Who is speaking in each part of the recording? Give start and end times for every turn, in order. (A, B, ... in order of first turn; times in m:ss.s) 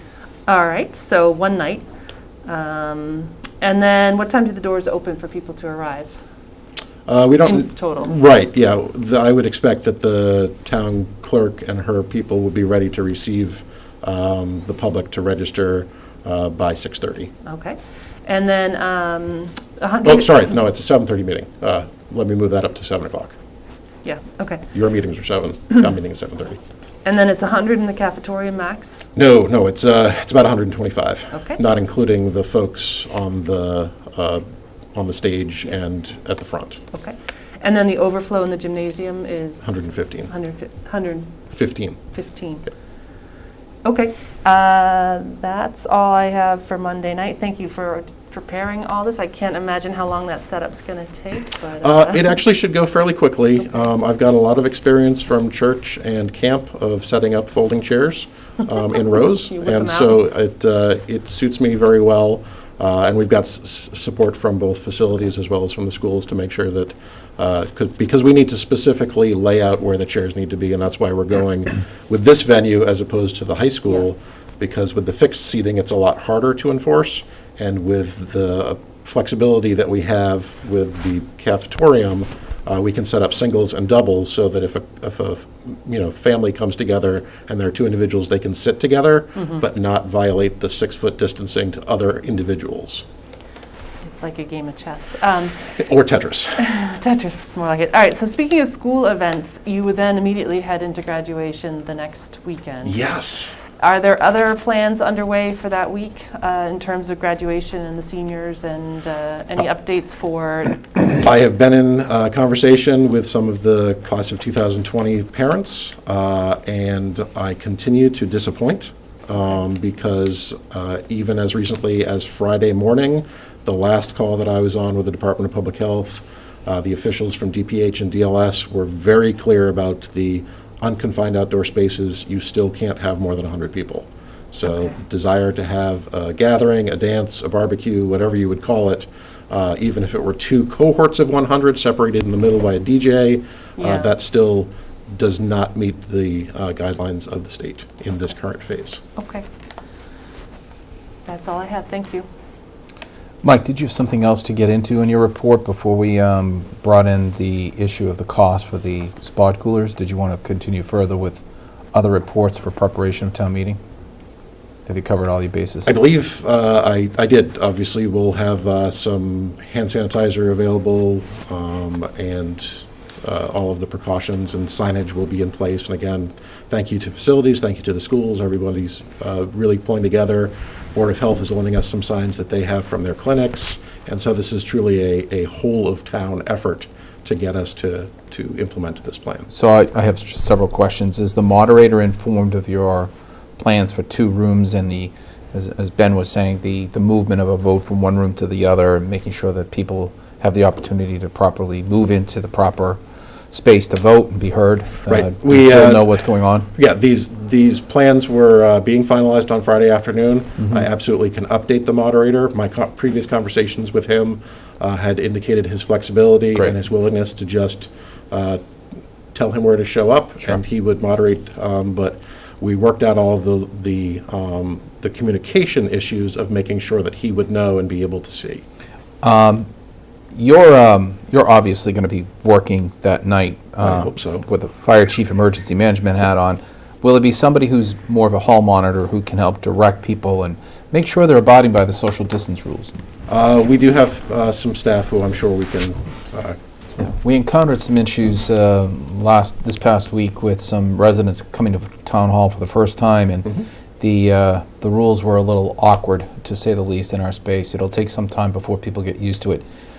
0:00.5-0:01.8 A
0:02.4-0:06.1 A
0:07.1-0:17.3 B
0:07.4-0:08.1 A
0:17.4-0:20.3 A
0:20.0-0:23.3 B
0:24.0-0:24.7 A
0:24.7-0:26.6 B
0:27.0-0:29.0 A
0:29.1-0:34.4 B
0:31.3-0:31.6 A
0:34.9-0:36.8 B
0:36.9-0:39.7 A
0:39.6-0:40.3 B
0:40.3-0:41.5 A
0:41.5-0:42.0 B
0:42.1-0:42.7 A
0:43.8-0:52.3 A
0:51.8-1:33.0 B
0:59.5-1:00.2 A
1:34.0-1:35.6 A
1:35.8-1:36.6 B
1:36.6-1:43.0 A
1:42.8-1:43.6 B
1:43.8-1:50.9 A
1:51.0-2:29.0 B
2:14.7-2:14.9 A
2:23.8-2:24.1 A
2:29.2-2:29.4 A
2:31.2-2:32.3 A
2:33.4-2:41.4 C
2:41.9-2:43.8 C
2:44.8-2:45.9 C
2:45.8-3:09.5 B
3:09.5-3:23.0 C
3:23.5-3:26.7 C
3:25.1-3:26.1 B
3:26.7-3:38.6 B
3:30.6-3:30.8 C
3:39.3-3:48.6 B
3:49.2-3:49.7 C
3:50.3-4:02.9 C
3:53.8-3:54.4 B
4:03.3-4:06.6 B
4:07.0-4:19.6 C